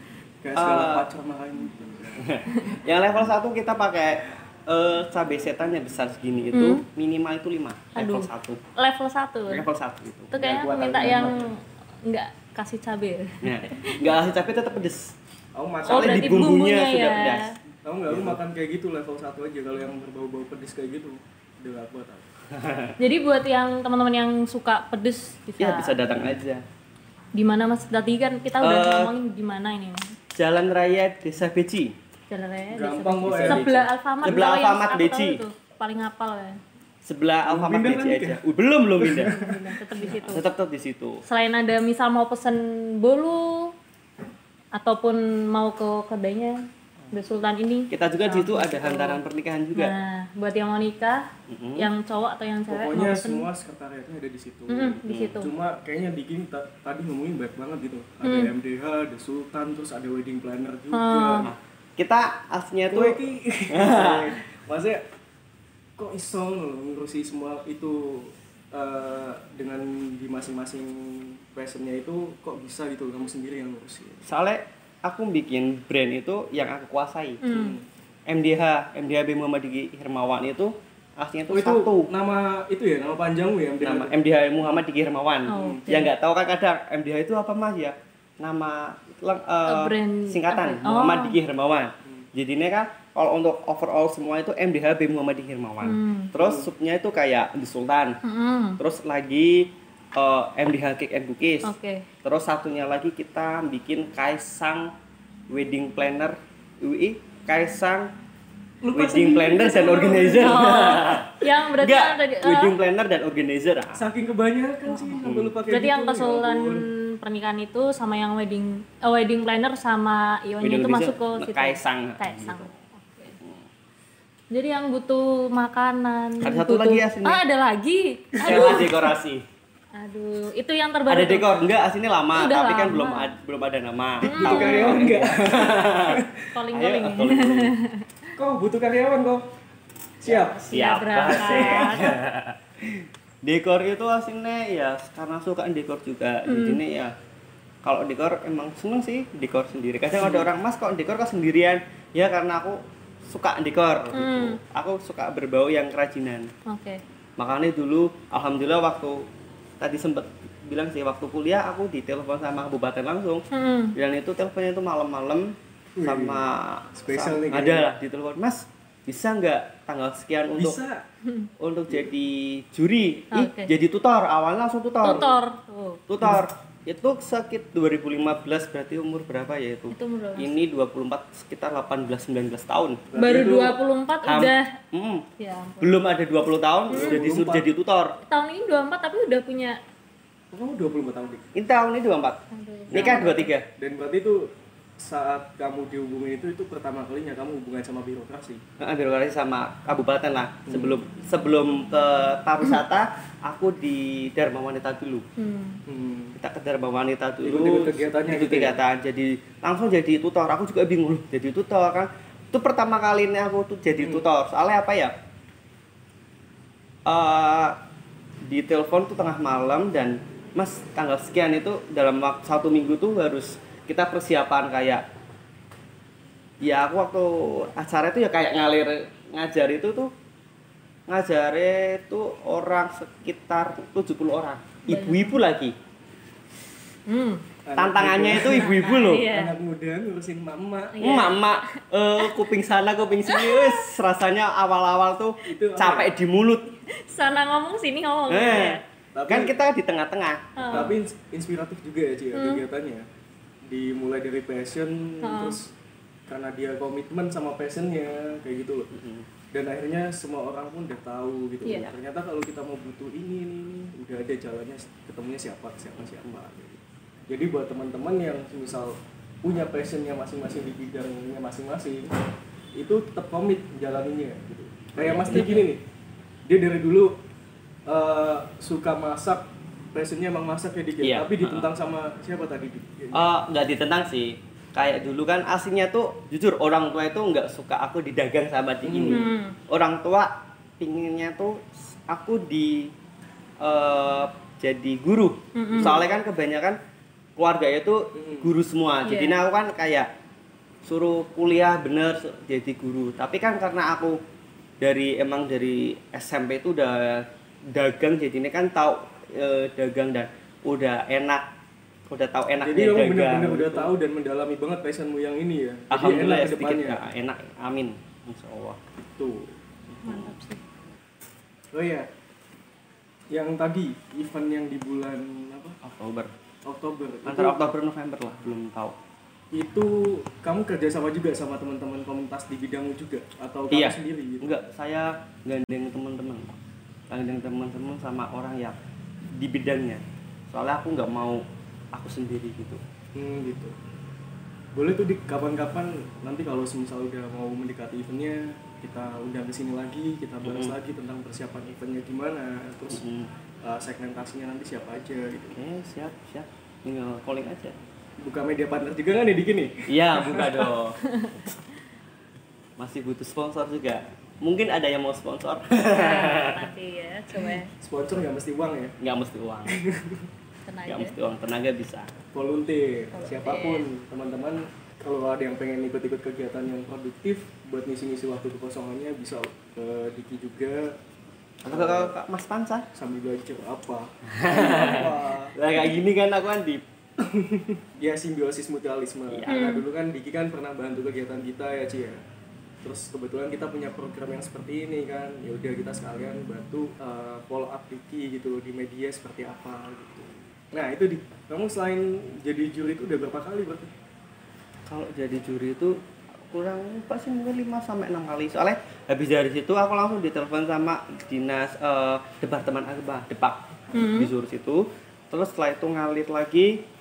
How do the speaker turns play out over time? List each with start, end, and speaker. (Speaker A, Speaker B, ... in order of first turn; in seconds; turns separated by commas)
Speaker A: 0.4-2.3, Speaker B: 0.5-1.1, Speaker B: 2.2-8.6, Speaker C: 2.5-2.8, Speaker C: 6.5-6.8, Speaker C: 7.9-9.7, Speaker B: 9.5-10.3, Speaker C: 10.3-14.0, Speaker A: 10.4-11.5, Speaker B: 13.4-15.2, Speaker A: 15.5-16.3, Speaker B: 15.8-17.5, Speaker C: 15.9-17.5, Speaker A: 17.8-22.3, Speaker B: 18.1-18.4, Speaker B: 22.5-22.9, Speaker C: 23.0-25.9, Speaker B: 25.6-26.6, Speaker C: 27.3-30.1, Speaker B: 28.6-29.1, Speaker B: 30.3-31.9, Speaker C: 32.3-36.6, Speaker A: 32.7-33.8, Speaker B: 33.2-35.4, Speaker B: 37.0-39.4, Speaker A: 37.5-38.4, Speaker A: 39.0-39.6, Speaker C: 39.2-40.4, Speaker B: 40.1-41.2, Speaker C: 41.2-43.7, Speaker C: 44.7-49.2, Speaker B: 47.9-49.9, Speaker C: 49.7-53.5, Speaker B: 51.5-51.9, Speaker A: 52.7-61.5, Speaker C: 54.7-55.5, Speaker B: 55.0-55.4, Speaker C: 58.2-58.5, Speaker C: 60.9-61.5, Speaker B: 61.4-63.2, Speaker A: 62.9-65.0, Speaker B: 63.7-64.3, Speaker A: 66.0-74.3, Speaker B: 74.2-77.4, Speaker C: 77.4-77.8, Speaker A: 77.5-77.8, Speaker B: 78.3-82.1, Speaker A: 81.5-84.2, Speaker B: 83.8-98.2, Speaker C: 85.5-86.1, Speaker A: 85.6-85.8, Speaker C: 89.7-91.4, Speaker C: 95.8-96.3, Speaker A: 96.4-96.7, Speaker C: 98.2-98.8, Speaker B: 98.8-104.9, Speaker C: 101.6-102.1, Speaker B: 105.5-108.1, Speaker A: 108.8-110.9, Speaker B: 108.9-114.1, Speaker C: 110.2-112.7, Speaker A: 113.9-116.9, Speaker C: 114.9-115.1, Speaker B: 115.2-115.5, Speaker C: 115.7-123.4, Speaker B: 120.6-122.7, Speaker C: 124.5-128.9, Speaker B: 126.4-127.4, Speaker B: 128.4-129.4, Speaker A: 128.5-128.8, Speaker C: 129.9-131.5, Speaker B: 131.1-137.7, Speaker C: 132.3-133.3, Speaker C: 134.2-135.1, Speaker A: 134.2-136.3, Speaker C: 136.5-138.1, Speaker A: 138.3-139.4, Speaker A: 140.2-140.7, Speaker C: 140.3-142.2, Speaker B: 140.6-147.1, Speaker A: 141.4-141.9, Speaker C: 146.4-146.8, Speaker B: 147.8-156.5, Speaker A: 150.2-150.5, Speaker C: 154.1-154.6, Speaker C: 156.7-157.0, Speaker B: 157.4-159.2, Speaker B: 159.8-163.4, Speaker C: 163.5-163.9, Speaker B: 163.9-170.8, Speaker A: 165.9-166.4, Speaker A: 167.0-167.9, Speaker A: 170.5-171.0, Speaker B: 171.6-175.3, Speaker C: 173.3-173.7, Speaker C: 175.0-176.0, Speaker B: 176.1-183.0, Speaker C: 179.9-180.5, Speaker A: 183.1-183.8, Speaker C: 183.2-184.7, Speaker B: 184.2-185.2, Speaker C: 185.4-185.9, Speaker B: 185.8-188.2, Speaker C: 186.9-187.2, Speaker A: 186.9-187.7, Speaker C: 188.3-189.8, Speaker A: 190.5-191.4, Speaker B: 191.5-192.4, Speaker C: 192.5-193.5, Speaker B: 192.9-193.7, Speaker A: 192.9-193.2, Speaker A: 193.8-198.6, Speaker B: 198.8-205.3, Speaker A: 200.7-200.9, Speaker C: 205.4-205.8, Speaker A: 205.9-206.3, Speaker B: 206.3-215.1, Speaker A: 207.4-208.8, Speaker B: 217.1-217.8, Speaker B: 218.4-225.0, Speaker B: 226.6-230.1, Speaker B: 231.1-235.7, Speaker C: 234.9-235.4, Speaker C: 237.1-237.4, Speaker A: 237.6-241.1, Speaker B: 237.8-239.3, Speaker C: 238.4-239.5, Speaker C: 240.9-241.5, Speaker B: 241.0-246.7, Speaker C: 243.3-243.9, Speaker A: 245.4-246.1, Speaker C: 246.9-248.8, Speaker B: 248.3-250.9, Speaker A: 249.1-249.5, Speaker C: 250.6-250.9, Speaker A: 250.7-253.1, Speaker C: 252.3-252.6, Speaker A: 253.7-255.7, Speaker C: 255.2-255.6, Speaker A: 256.3-258.9, Speaker B: 258.9-259.2, Speaker A: 259.5-272.1, Speaker A: 272.8-275.8, Speaker B: 275.0-275.7, Speaker A: 276.5-277.1, Speaker A: 277.9-283.2, Speaker B: 281.0-281.7, Speaker B: 283.1-292.9, Speaker A: 288.8-289.2, Speaker C: 289.1-289.6, Speaker B: 293.6-296.8, Speaker C: 295.5-296.0, Speaker B: 297.4-300.1, Speaker A: 298.1-298.5, Speaker C: 299.0-299.4, Speaker B: 300.8-304.2, Speaker B: 304.8-311.4, Speaker B: 312.1-313.9, Speaker A: 312.6-317.0, Speaker B: 315.9-318.8, Speaker A: 319.0-319.5, Speaker B: 319.9-320.3, Speaker C: 320.0-320.6, Speaker A: 321.7-322.1, Speaker A: 323.3-325.8, Speaker B: 325.8-326.3, Speaker A: 326.6-327.6, Speaker B: 327.2-328.9, Speaker A: 329.5-334.5, Speaker B: 333.7-336.6, Speaker B: 337.1-338.8, Speaker B: 339.3-342.8, Speaker A: 343.1-343.7, Speaker A: 344.7-353.0, Speaker B: 350.4-350.8, Speaker B: 352.9-353.3, Speaker A: 353.6-355.6, Speaker B: 355.5-357.8, Speaker A: 358.2-360.6, Speaker B: 359.9-361.0, Speaker C: 361.1-361.5, Speaker B: 362.8-366.7, Speaker C: 365.9-367.7, Speaker A: 367.7-368.9, Speaker B: 369.0-369.8, Speaker A: 369.7-370.3, Speaker C: 370.6-371.2, Speaker B: 370.9-372.1, Speaker A: 372.3-381.0, Speaker C: 373.1-373.9, Speaker A: 381.6-382.1, Speaker B: 381.6-382.9, Speaker A: 382.9-385.6, Speaker B: 384.3-386.8, Speaker A: 387.2-392.2, Speaker B: 389.3-389.6, Speaker C: 389.5-389.8, Speaker A: 392.8-403.9, Speaker B: 404.9-416.8, Speaker C: 413.9-414.3